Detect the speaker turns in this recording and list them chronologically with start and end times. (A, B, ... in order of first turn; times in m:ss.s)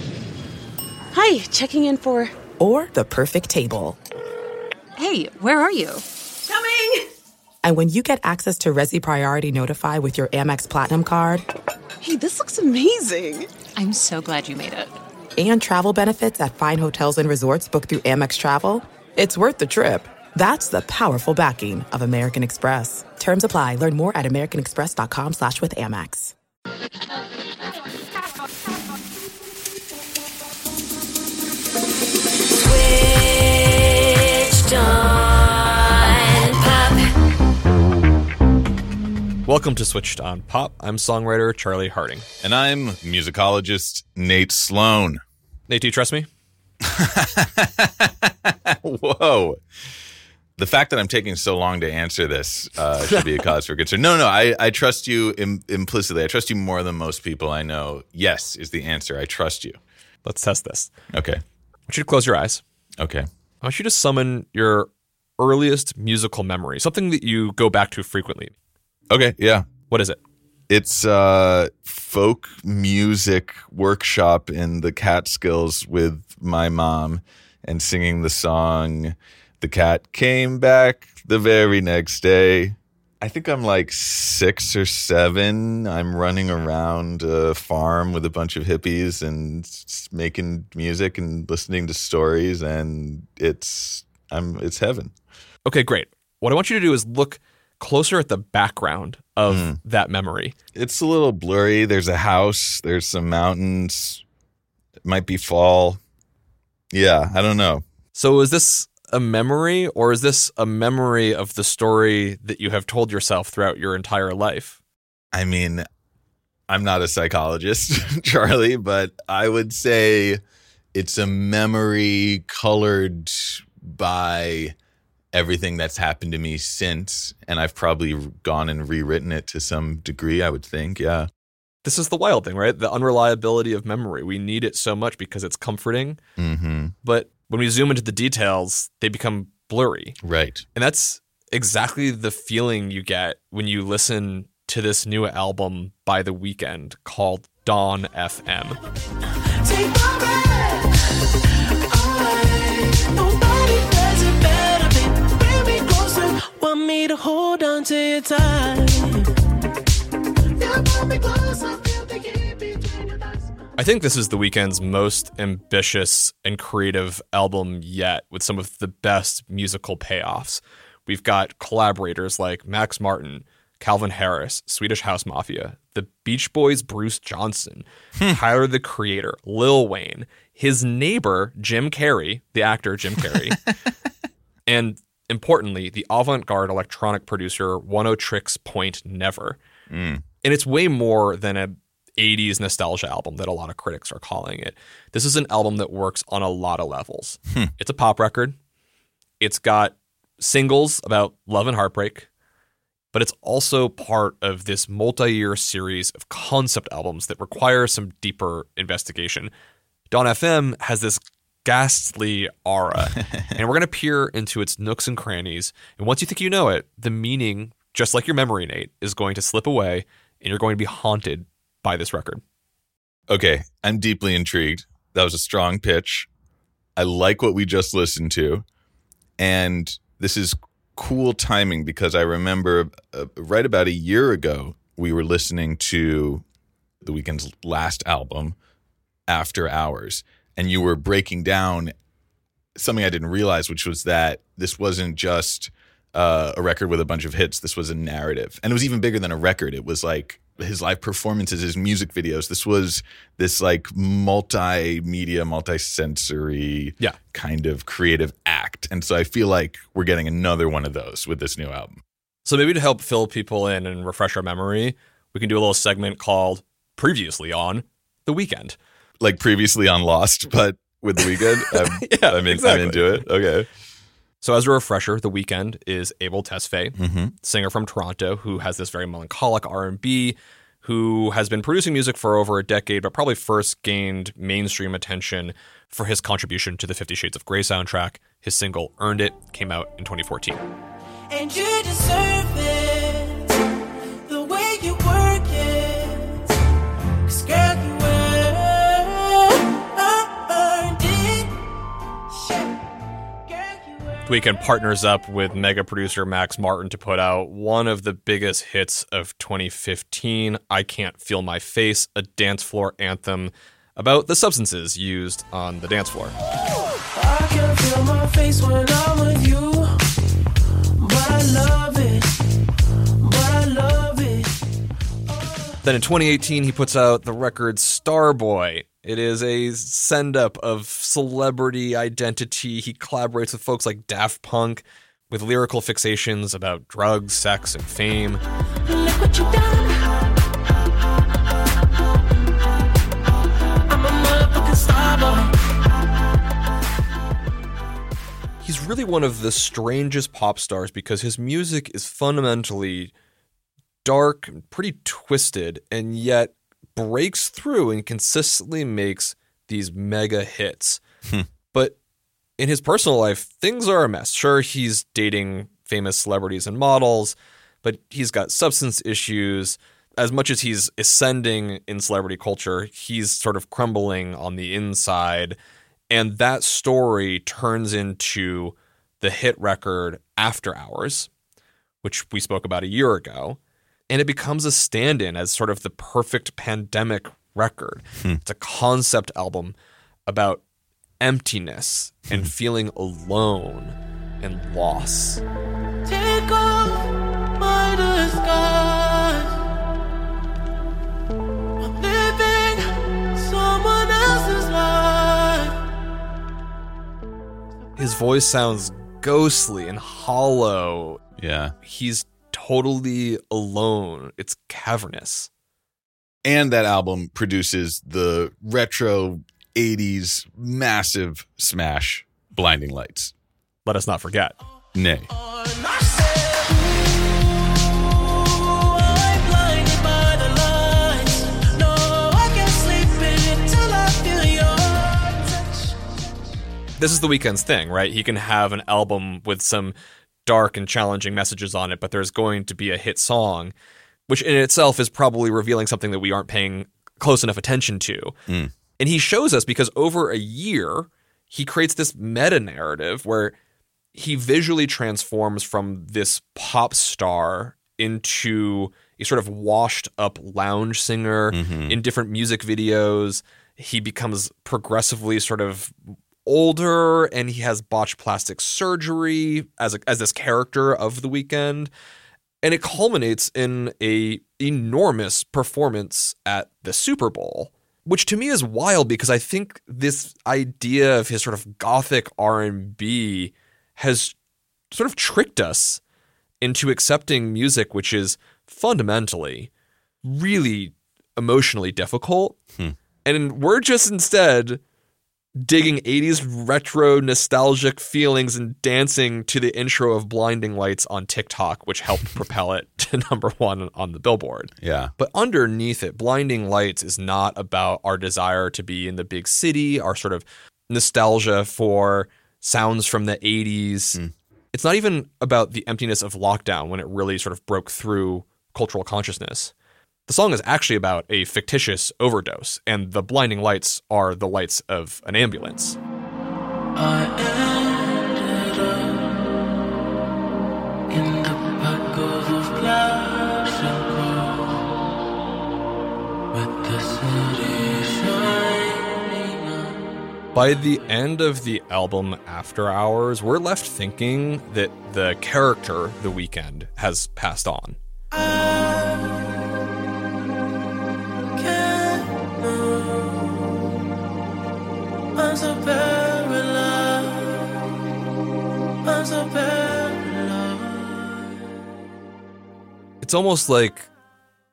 0:01.1-0:02.3 A
0:02.6-0:04.0 B
0:05.0-0:06.0 C
0:06.4-0:07.1 A
0:07.6-0:11.4 B
0:12.0-0:13.5 A
0:13.8-0:15.0 C
0:15.4-0:26.3 B
0:36.2-0:37.0 C
0:39.4-0:42.2 D
0:42.4-0:45.2 E
0:45.7-0:46.3 D
0:46.8-0:49.6 E
0:50.6-0:59.8 E
1:00.2-1:00.9 D
1:01.1-1:01.4 E
1:01.9-1:02.6 D
1:03.0-1:03.3 E
1:03.6-1:08.5 D
1:09.1-1:09.7 E
1:09.9-1:10.2 D
1:10.7-1:35.1 E
1:35.6-1:40.5 D
1:39.5-1:39.8 E
1:40.7-1:44.2 E
1:45.0-1:46.0 E
1:46.9-1:47.8 E
1:48.1-1:54.8 D
1:55.3-1:55.8 E
1:56.7-2:00.4 E
2:00.9-2:04.7 E
2:05.3-2:11.3 E
2:11.8-2:16.2 D
2:16.4-2:16.9 E
2:17.0-2:20.2 D
2:20.2-2:20.6 E
2:20.7-2:28.8 D
2:29.6-2:31.0 F
2:31.9-2:39.3 F
2:40.6-2:43.4 F
2:43.8-3:03.7 D
3:04.6-3:09.6 D
3:09.9-3:10.2 E
3:10.4-3:18.6 D
3:19.4-3:22.3 D
3:23.1-3:29.5 D
3:30.1-3:42.4 D
3:43.3-3:46.3 E
3:47.0-3:48.6 E
3:49.4-3:56.4 E
3:57.0-3:58.6 E
3:59.3-4:01.9 E
4:02.8-4:22.0 E
4:22.4-4:28.8 D
4:29.2-4:33.7 E
4:31.2-4:33.2 D
4:34.4-4:50.6 D
4:37.0-4:37.3 E
4:51.3-4:53.6 F
4:54.2-4:56.5 F
4:57.2-5:01.6 F
5:02.3-5:02.8 F
5:03.5-5:04.3 F
5:04.2-5:16.4 D
5:17.1-5:20.0 F
5:21.0-5:22.4 F
5:23.2-5:24.6 F
5:25.3-5:25.8 F
5:25.8-5:38.4 D
5:38.8-5:40.1 F
5:43.9-5:45.7 F
5:48.6-5:53.1 D
5:54.0-6:01.0 D
6:02.6-6:15.6 D
6:16.1-6:21.3 D
6:22.0-6:23.6 D
6:24.1-6:30.6 D
6:31.2-6:35.4 D
6:36.0-6:39.5 F
6:41.8-6:45.8 F
6:48.0-6:51.2 D
6:51.4-6:51.7 E
6:51.8-6:55.5 D
6:56.4-7:03.3 E
7:03.8-7:04.6 D
7:04.9-7:05.3 E
7:05.3-7:15.9 F
7:17.0-7:23.7 D
7:24.3-7:28.4 D
7:28.5-7:28.7 E
7:29.0-7:33.5 D
7:34.1-7:51.9 D
7:41.5-7:42.0 E
7:52.6-8:04.3 D
8:04.9-8:06.0 D
8:06.6-8:09.7 D
8:10.2-8:12.6 D
8:13.2-8:14.8 D
8:15.6-8:34.2 D
8:24.8-8:25.1 E
8:34.7-8:39.7 D
8:40.3-8:46.0 D
8:47.0-8:49.4 F
8:51.1-8:54.9 F
8:56.5-9:00.0 F
9:00.5-9:08.0 D
9:08.3-9:09.5 F
9:11.6-9:13.6 F
9:15.4-9:17.8 F
9:19.0-9:21.3 F
9:23.2-9:24.1 D